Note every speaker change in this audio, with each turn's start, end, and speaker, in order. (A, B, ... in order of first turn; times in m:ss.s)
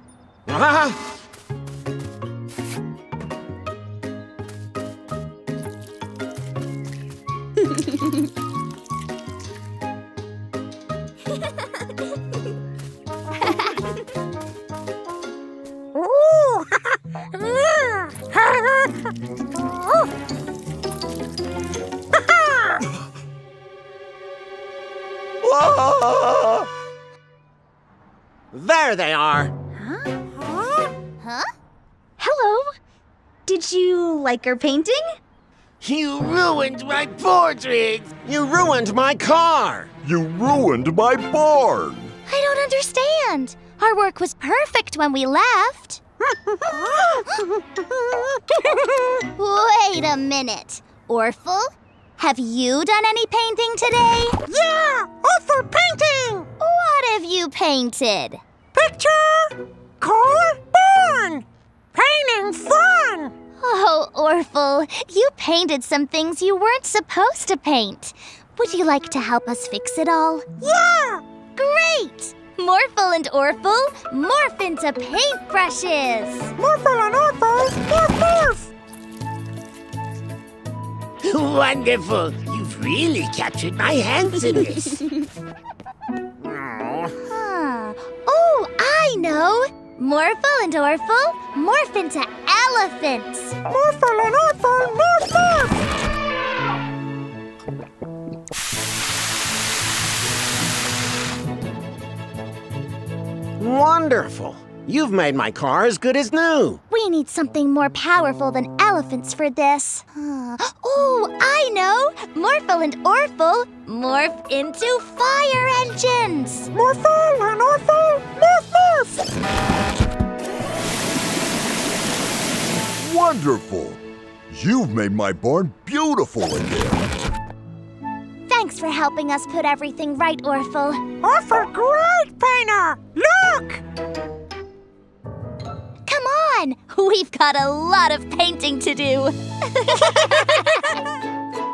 0:00.5-0:01.0 A
0:15.9-0:16.7 B
0:17.4-0:18.8 B
0:25.4-0:25.8 A
0:25.7-0:26.4 C
0:28.5-0:29.5 A
0:29.8-0:30.1 D
0:30.4-0:30.9 B
0:31.2-0:31.5 E
0:32.2-0:32.7 D
0:33.4-0:35.2 D
0:35.8-0:38.2 F
0:38.2-0:39.9 A
0:40.0-0:42.1 C
0:42.3-0:46.0 E
0:46.5-0:47.7 B
0:48.3-0:48.8 B
0:49.3-0:54.4 E
0:54.5-0:56.4 B
0:56.6-0:58.4 E
0:58.7-1:03.3 B
1:03.6-1:10.4 E
1:10.6-1:11.2 B
1:11.6-1:16.5 E
1:16.6-1:18.7 B
1:21.2-1:25.0 F
1:27.2-1:33.6 E
1:33.7-1:35.8 B
1:43.6-1:46.8 A
1:46.9-1:56.7 E
1:56.7-1:59.3 B
2:03.0-2:07.1 C
2:08.5-2:11.0 E
2:11.2-2:13.8 B
2:16.0-2:20.9 E